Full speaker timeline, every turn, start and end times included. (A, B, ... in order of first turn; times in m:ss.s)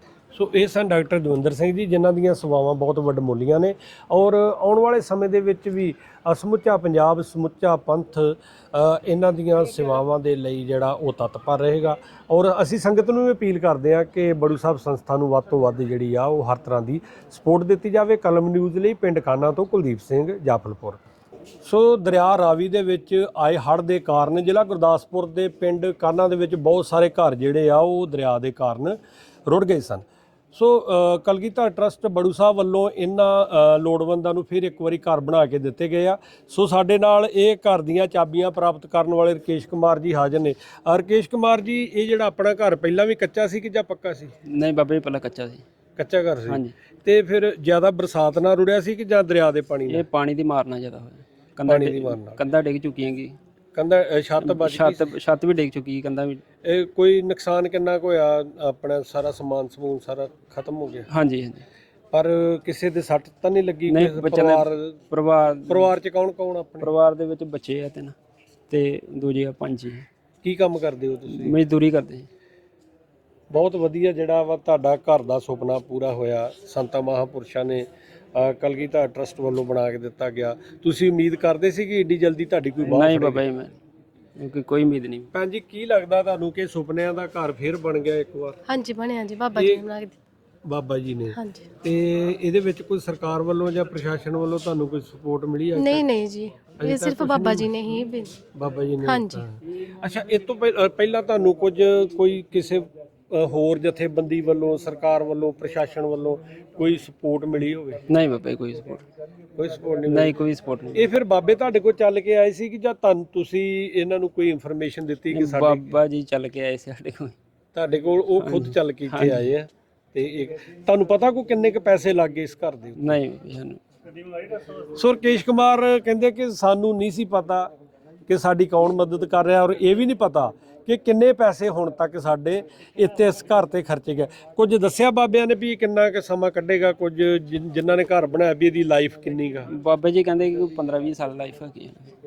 0:00.3-0:21.0 A
0:21.6-0:44.3 A
0:44.5-0:45.6 B
0:46.0-0:50.0 A
0:46.5-0:46.7 B
0:49.9-0:53.4 B
0:51.7-0:52.4 A
0:53.8-0:55.1 A
0:54.4-0:56.4 B
0:56.6-1:01.1 A
1:01.1-1:01.7 B
1:02.1-1:05.0 A
1:03.9-1:05.9 B
1:05.7-1:06.9 A
1:06.8-1:08.2 B
1:08.7-1:10.1 B
1:10.4-1:11.6 A
1:11.3-1:12.3 B
1:13.5-1:23.4 A
1:22.8-1:23.8 B
1:24.4-1:25.3 B
1:25.3-1:28.6 A
1:28.7-1:30.2 C
1:29.6-1:29.8 A
1:30.7-1:36.1 A
1:31.4-1:31.7 C
1:35.8-1:38.4 C
1:36.7-1:37.8 A
1:38.5-1:48.0 A
1:39.1-1:39.4 C
1:48.1-1:49.0 B
1:49.6-1:50.4 A
1:50.1-1:51.0 B
1:50.9-1:56.0 A
1:55.3-1:57.4 B
1:57.7-2:03.2 A
1:58.4-1:59.4 B
2:03.0-2:03.8 B
2:04.7-2:07.7 A
2:08.3-2:19.7 A
2:19.7-2:22.1 B